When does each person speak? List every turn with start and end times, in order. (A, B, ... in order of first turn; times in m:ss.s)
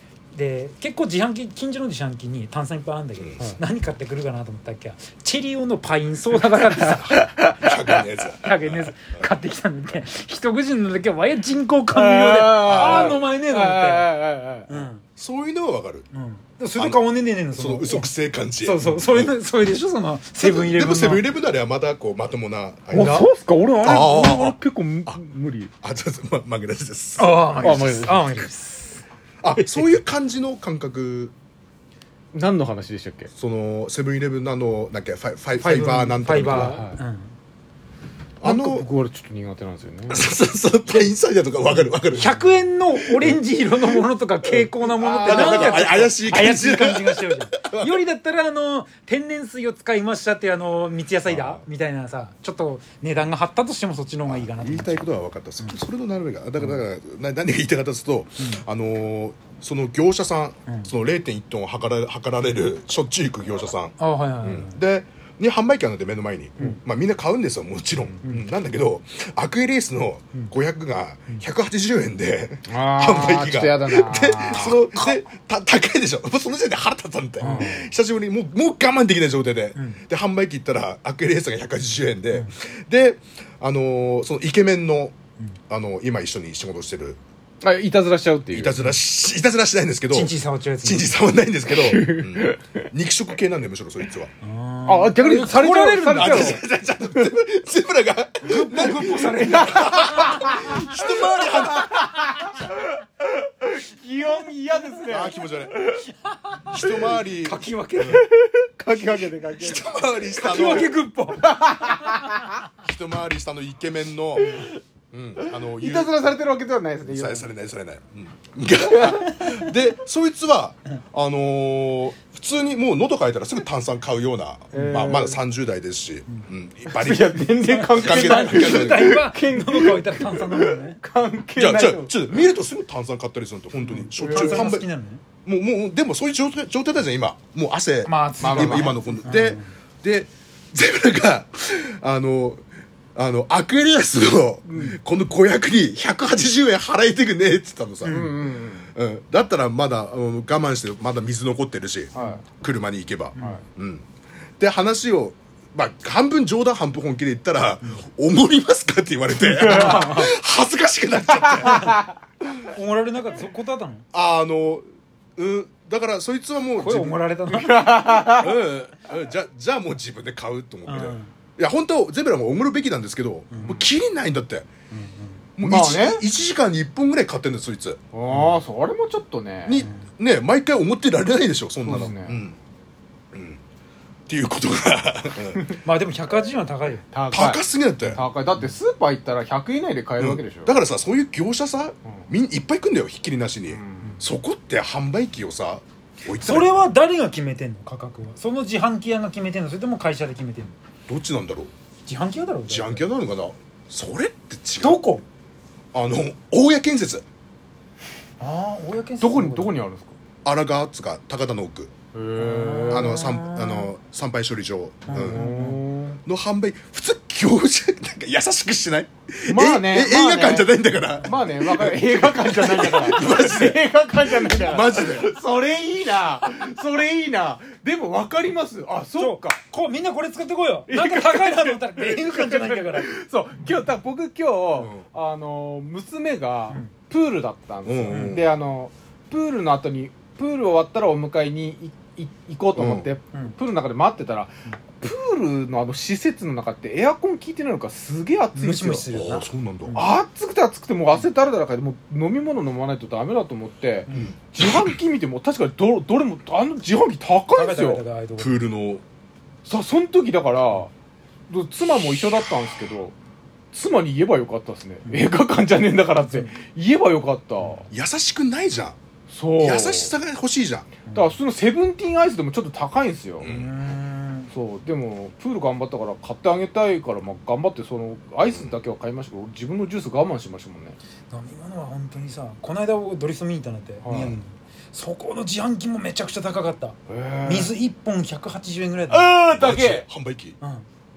0:00.3-0:14.1 A
0:03.2-0:03.4 B
0:06.8-0:09.3 B
0:11.9-0:14.7 C
0:12.6-0:13.2 B
0:14.7-0:15.0 A
0:14.7-0:16.0 B
0:16.1-0:18.1 A
0:16.8-0:17.0 B
0:17.5-0:19.3 B
0:18.6-0:21.2 A
0:20.4-0:23.3 B
0:22.9-0:25.7 C
0:22.9-0:23.3 A
0:23.8-0:25.2 B
0:25.8-0:27.7 B
0:27.2-0:29.0 A
0:27.6-0:28.4 C
0:29.4-0:31.3 B
0:29.6-0:29.9 A
0:32.3-0:33.3 C
0:33.4-0:36.8 B
0:35.6-0:37.3 A
0:36.4-0:37.0 C
0:38.4-0:38.9 B
0:38.4-0:40.2 C
0:40.1-0:42.4 B
0:42.1-0:55.8 A
0:43.0-0:43.4 B
0:44.4-0:48.0 B
0:45.0-0:45.9 C
0:51.2-0:51.6 B
0:54.3-1:25.2 B
1:04.0-1:04.8 A
1:12.7-1:14.8 C
1:17.4-1:17.7 A
1:17.4-1:17.9 C
1:19.8-1:20.0 A
1:25.7-1:27.2 B
1:27.6-1:28.8 C
1:28.5-1:34.3 B
1:30.1-1:31.1 A
1:31.7-1:32.8 C
1:34.4-1:36.6 A
1:34.8-1:36.6 C
1:36.1-1:41.9 B
1:38.4-1:40.9 A
1:39.4-1:46.1 C
1:45.1-1:45.8 B
1:46.7-1:48.3 B
1:47.3-1:48.2 A
1:48.0-1:50.8 C
1:49.6-1:50.9 B
1:50.4-1:52.0 A
1:51.4-1:52.5 C
1:52.8-1:56.4 B
1:54.4-1:54.7 C
1:55.5-1:57.5 C
1:57.0-2:09.2 B
1:58.9-1:59.2 C
2:04.7-2:05.4 C
2:06.9-2:12.5 C
2:07.6-2:11.0 A
2:11.6-2:14.8 B
2:13.9-2:14.7 C
2:14.2-2:15.2 A
2:15.4-2:22.6 B
2:18.0-2:19.7 A
2:18.4-2:19.2 C
2:23.1-2:28.4 B
2:24.7-2:25.0 C
2:28.0-2:28.3 A
2:28.1-2:28.9 C
2:28.9-2:34.0 B
2:32.1-2:32.4 C
2:33.4-2:33.6 A
2:34.6-2:42.0 B
2:39.4-2:40.3 C
2:39.6-2:40.3 A
2:41.6-2:42.0 C
2:42.6-2:44.0 A
2:44.1-2:44.8 B
2:45.4-2:47.2 B
2:46.7-2:48.1 A
2:47.5-2:48.6 C
2:48.3-2:54.7 B
2:50.8-2:51.3 A
2:53.5-2:53.8 A
2:54.9-2:55.4 A
2:55.6-2:58.0 B
2:55.6-2:56.2 C
2:58.1-2:59.8 C
2:59.6-3:02.6 B
3:01.8-3:02.4 C
3:03.3-3:03.6 B
3:04.3-3:05.7 B
3:05.8-3:07.0 A
3:07.1-3:10.7 C
3:07.3-3:08.2 B
3:10.2-3:16.9 B
3:13.7-3:14.2 C
3:16.4-3:20.7 A
3:21.1-3:21.7 B
3:22.0-3:23.1 A
3:22.7-3:25.0 B
3:24.8-3:25.2 A
3:25.9-3:27.2 B
3:28.4-3:29.7 A
3:29.2-3:30.1 C
3:30.4-3:31.9 B
3:32.1-3:33.2 C
3:32.4-3:33.9 A
3:32.9-3:35.4 B
3:35.1-3:35.8 A
3:35.1-3:36.2 C
3:36.2-3:45.3 B
3:39.5-3:40.7 C
3:41.2-3:49.6 C
3:49.1-3:53.1 A
3:50.9-4:09.1 C
3:54.7-3:55.0 B
3:57.8-3:58.5 B
3:58.1-3:58.4 A
4:02.7-4:03.1 B
4:08.5-4:10.0 A
4:09.1-4:10.0 B
4:09.9-4:18.0 C
4:14.1-4:14.3 A
4:14.1-4:14.8 B
4:17.5-4:18.6 A
4:18.4-4:19.0 B
4:19.6-4:20.9 C
4:21.5-4:23.1 C
4:23.7-4:27.8 C
4:25.0-4:25.3 A
4:26.2-4:26.5 A
4:27.9-4:29.0 B
4:29.3-4:30.2 C
4:29.6-4:30.9 B
4:31.0-4:31.4 A
4:31.1-4:33.5 C
4:33.4-4:33.9 B
4:33.4-4:34.5 A
4:34.5-4:41.0 C
4:38.4-4:38.8 B
4:41.3-4:49.4 A
4:44.0-4:44.4 C
4:44.1-4:44.4 B
4:47.1-4:47.7 C
4:49.1-4:50.1 C
4:49.5-4:50.6 B
4:50.6-4:50.8 A